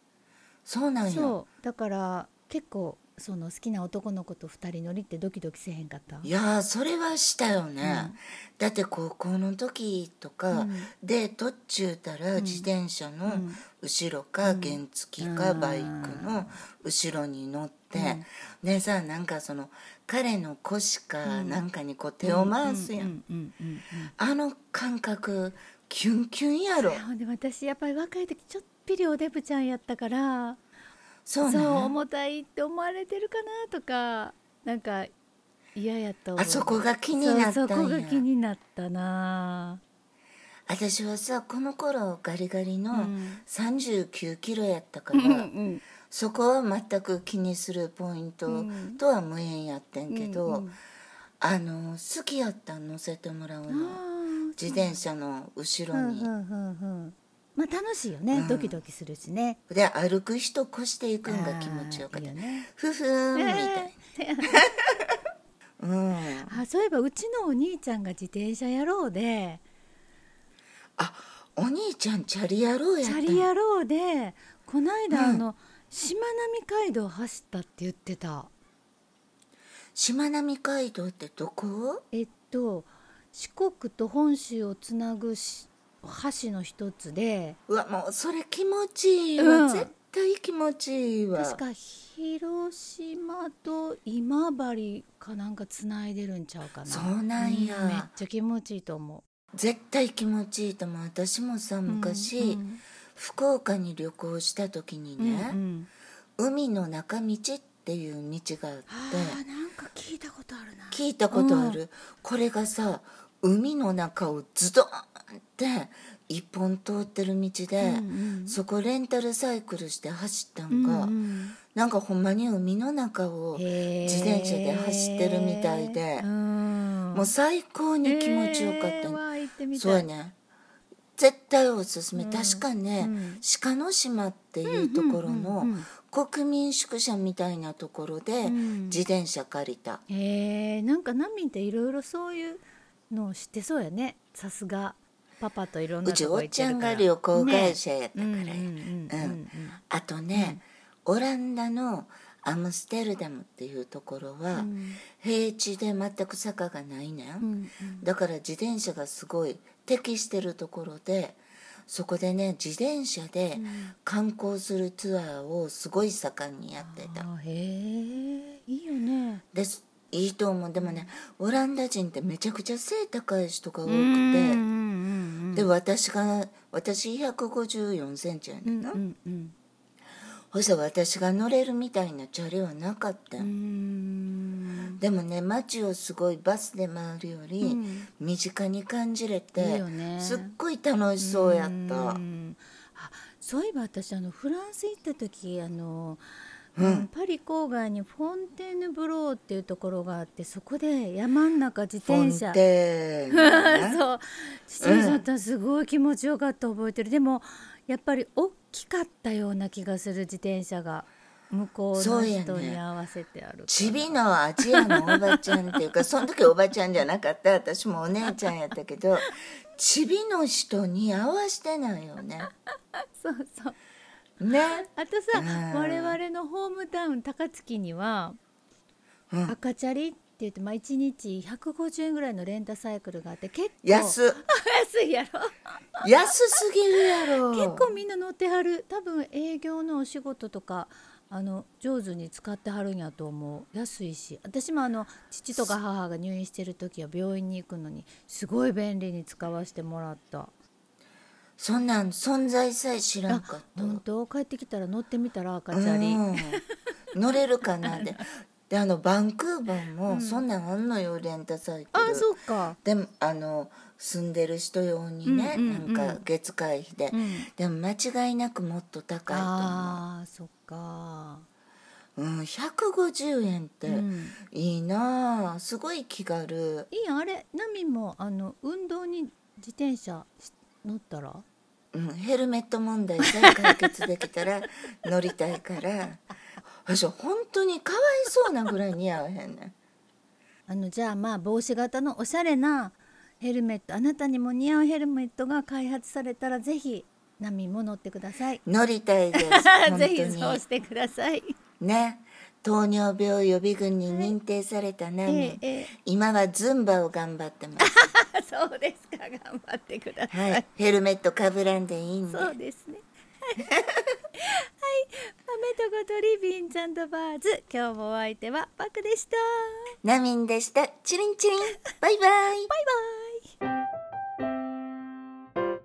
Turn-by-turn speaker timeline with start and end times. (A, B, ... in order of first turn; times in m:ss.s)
0:00.6-0:01.4 A
0:01.0-0:06.3 B
0:06.2-0:23.1 A
0:07.8-0:08.2 B
0:10.5-0:10.9 B
0:12.4-0:12.7 B
0:13.3-0:13.6 B
0:14.4-0:16.5 B
0:17.9-0:18.2 B
0:21.2-0:21.6 B
0:22.2-0:24.1 B
0:24.2-0:27.0 A
0:26.7-0:30.6 B
0:31.2-0:32.0 A
0:31.4-0:35.1 B
0:35.7-0:39.8 B
0:36.4-0:38.2 A
0:40.7-0:45.5 A
0:42.9-0:43.4 B
0:45.1-0:45.8 B
0:46.1-0:50.7 A
0:48.5-0:49.0 B
0:50.1-0:50.8 B
0:51.4-0:54.0 A
0:53.7-0:55.0 B
0:54.6-0:56.3 A
0:55.9-0:59.6 B
0:58.3-0:58.8 A
0:59.7-1:04.0 A
1:01.2-1:02.7 B
1:03.3-1:04.8 B
1:05.8-1:06.6 A
1:06.5-1:09.6 B
1:11.0-1:13.5 A
1:13.0-1:18.5 B
1:15.1-1:15.4 A
1:19.9-1:22.0 A
1:22.1-1:27.6 B
1:27.7-1:31.6 A
1:29.4-1:29.9 B
1:31.3-1:39.2 B
1:36.9-1:38.1 A
1:39.5-1:42.6 A
1:41.8-1:42.8 B
1:43.1-1:45.6 A
1:45.2-1:45.9 B
1:46.4-1:49.4 A
1:48.9-1:51.8 B
1:50.9-2:01.1 A
1:57.8-1:58.6 B
2:00.7-2:01.6 B
2:01.7-2:06.3 A
2:03.5-2:07.3 B
2:07.1-2:09.2 A
2:08.0-2:10.1 B
2:09.7-2:10.3 A
2:11.2-2:20.0 A
2:12.1-2:13.4 B
2:14.6-2:15.9 B
2:18.4-2:19.0 B
2:20.1-2:29.8 B
2:26.0-2:29.4 A
2:29.9-2:37.5 A
2:30.3-2:30.6 B
2:34.5-2:35.0 B
2:37.4-2:38.1 B
2:38.0-2:47.2 A
2:43.5-2:43.9 B
2:46.8-2:49.4 B
2:49.5-2:54.6 A
2:50.8-2:51.0 B
2:53.8-2:55.7 B
2:55.5-2:59.0 A
2:58.6-2:59.5 B
3:00.5-3:03.5 A
3:03.4-3:05.0 B
3:05.0-3:12.2 A
3:07.6-3:08.1 B
3:09.6-3:10.6 B
3:11.2-3:16.2 B
3:16.7-3:22.6 B
3:16.8-3:17.1 A
3:22.0-3:24.0 A
3:23.3-3:35.7 B
3:24.8-3:25.2 A
3:31.9-3:32.8 A
3:33.7-3:42.5 A
3:43.1-3:43.8 B
3:44.4-3:46.2 A
3:44.8-3:48.4 B
3:49.3-3:49.6 A
3:49.5-3:56.3 B
3:53.8-3:54.4 A
3:56.0-3:57.9 A
3:57.4-4:10.5 B
4:11.6-4:14.0 A
4:13.3-4:16.6 B
4:15.7-4:16.6 A
4:17.1-4:22.3 A
4:17.8-4:18.2 B
4:20.1-4:20.4 B
4:21.9-4:22.8 B
4:22.8-4:30.0 A
4:25.2-4:26.2 B
4:27.1-4:27.5 B
4:29.3-4:31.4 B
4:32.2-4:36.9 A
4:33.8-4:34.4 B
4:36.9-4:41.4 B
4:41.9-4:46.2 A
4:46.8-4:49.7 A
4:50.7-4:58.6 B
4:58.6-5:00.6 A
4:59.3-5:01.6 B
5:01.8-5:07.9 A
5:05.2-5:05.9 B
5:07.8-5:10.6 B
5:10.3-5:12.5 A
5:12.3-5:13.7 B
5:14.4-5:19.9 B
5:20.0-5:22.7 A
5:22.7-5:23.5 B